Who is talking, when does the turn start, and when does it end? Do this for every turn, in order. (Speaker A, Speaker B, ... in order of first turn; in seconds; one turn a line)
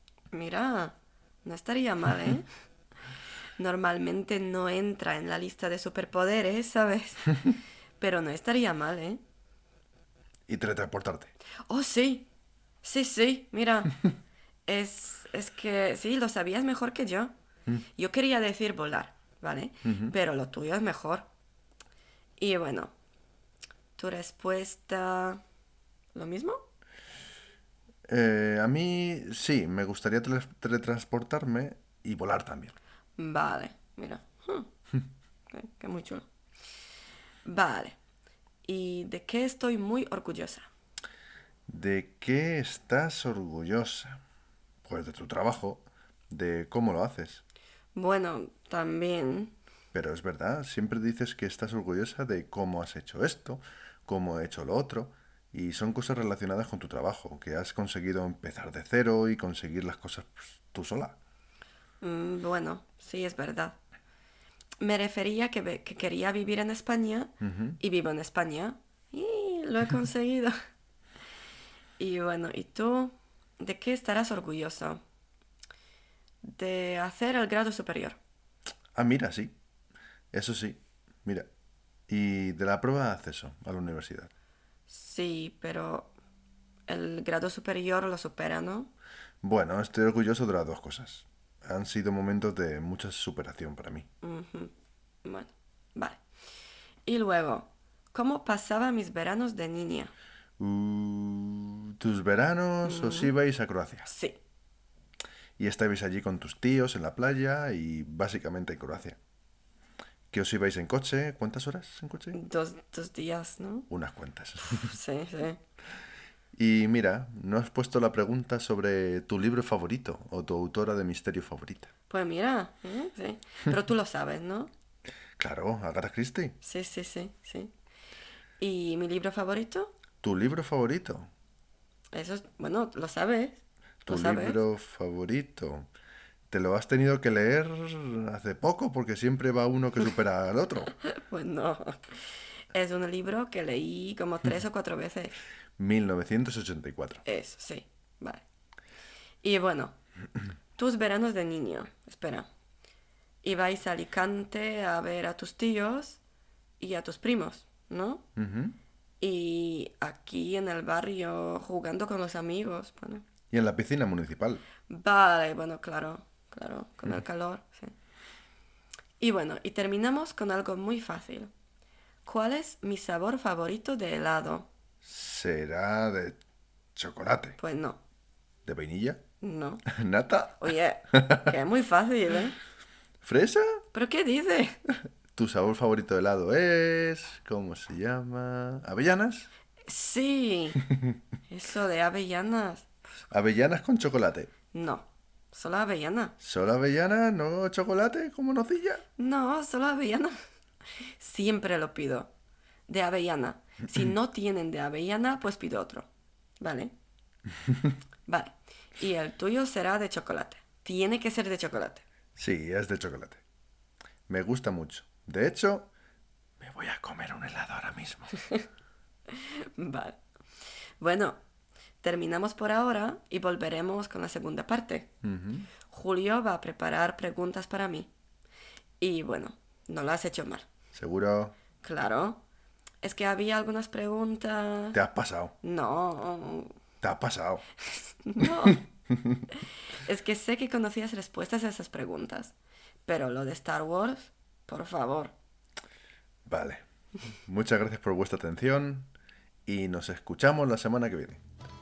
Speaker A: 0.3-2.5
Speaker A: 3.6-9.2
Speaker B: 10.5-11.3
Speaker A: 11.7-12.3
Speaker A: 12.8-14.0
Speaker A: 14.7-17.3
Speaker A: 17.9-21.3
Speaker B: 19.8-20.1
Speaker A: 22.4-22.9
Speaker A: 23.9-25.4
Speaker A: 26.1-26.6
Speaker B: 28.1-32.7
Speaker A: 33.2-34.7
Speaker A: 35.5-36.2
Speaker A: 37.5-38.0
Speaker A: 38.6-40.7
Speaker B: 41.7-44.2
Speaker B: 44.8-47.4
Speaker A: 47.9-49.5
Speaker B: 49.9-61.2
Speaker A: 62.0-63.8
Speaker A: 64.8-70.5
Speaker B: 67.4-67.8
Speaker A: 72.0-75.0
Speaker A: 76.4-78.2
Speaker B: 78.9-79.6
Speaker B: 80.3-81.5
Speaker B: 82.1-84.3
Speaker A: 84.9-86.1
Speaker A: 86.9-88.9
Speaker B: 89.4-94.1
Speaker A: 94.2-94.7
Speaker A: 95.2-96.2
Speaker A: 97.0-100.1
Speaker B: 100.6-104.1
Speaker A: 102.8-103.3
Speaker A: 104.0-104.4
Speaker B: 105.6-109.2
Speaker B: 110.3-112.4
Speaker A: 112.3-113.9
Speaker B: 113.9-115.0
Speaker A: 114.7-115.6
Speaker B: 116.5-121.9
Speaker A: 122.1-124.7
Speaker B: 125.4-126.6
Speaker A: 126.6-127.7
Speaker A: 128.6-129.9
Speaker B: 130.2-131.3
Speaker A: 132.1-134.6
Speaker B: 134.1-135.9
Speaker B: 136.5-140.9
Speaker A: 141.0-142.1
Speaker A: 142.7-145.4
Speaker B: 145.8-147.2
Speaker A: 147.2-148.4
Speaker A: 149.4-149.9
Speaker A: 150.8-152.4
Speaker A: 153.4-156.2
Speaker A: 156.8-158.2
Speaker B: 158.3-158.8
Speaker A: 159.2-163.2
Speaker B: 163.5-164.6
Speaker A: 164.9-167.9
Speaker A: 169.2-171.5
Speaker A: 172.2-174.7
Speaker B: 175.0-176.4
Speaker B: 176.9-177.6
Speaker A: 177.6-178.0
Speaker B: 178.6-179.2
Speaker A: 179.4-179.8
Speaker B: 179.9-181.6
Speaker A: 180.6-182.6
Speaker B: 183.2-183.8
Speaker A: 183.9-184.8
Speaker B: 185.3-189.5
Speaker A: 189.8-190.8
Speaker A: 191.5-192.9
Speaker B: 193.3-194.5
Speaker A: 194.7-196.3
Speaker B: 196.4-199.0
Speaker A: 199.2-200.3
Speaker A: 201.2-202.3
Speaker A: 202.9-206.1
Speaker A: 206.6-206.9
Speaker A: 208.3-212.0
Speaker B: 212.3-213.4
Speaker B: 214.3-215.9
Speaker B: 216.6-218.4
Speaker A: 218.4-218.6
Speaker A: 219.3-220.2
Speaker A: 221.0-221.4
Speaker A: 222.0-225.1
Speaker B: 225.2-225.7
Speaker A: 225.9-228.1
Speaker A: 229.0-230.7
Speaker B: 230.9-231.6
Speaker A: 231.8-232.4
Speaker A: 233.0-235.0
Speaker B: 234.9-235.5
Speaker A: 235.6-236.7
Speaker B: 237.0-237.7
Speaker A: 237.9-238.8
Speaker B: 239.1-239.4
Speaker A: 239.5-242.5
Speaker A: 243.1-245.3
Speaker B: 246.4-246.8
Speaker B: 247.4-249.1
Speaker B: 249.7-251.4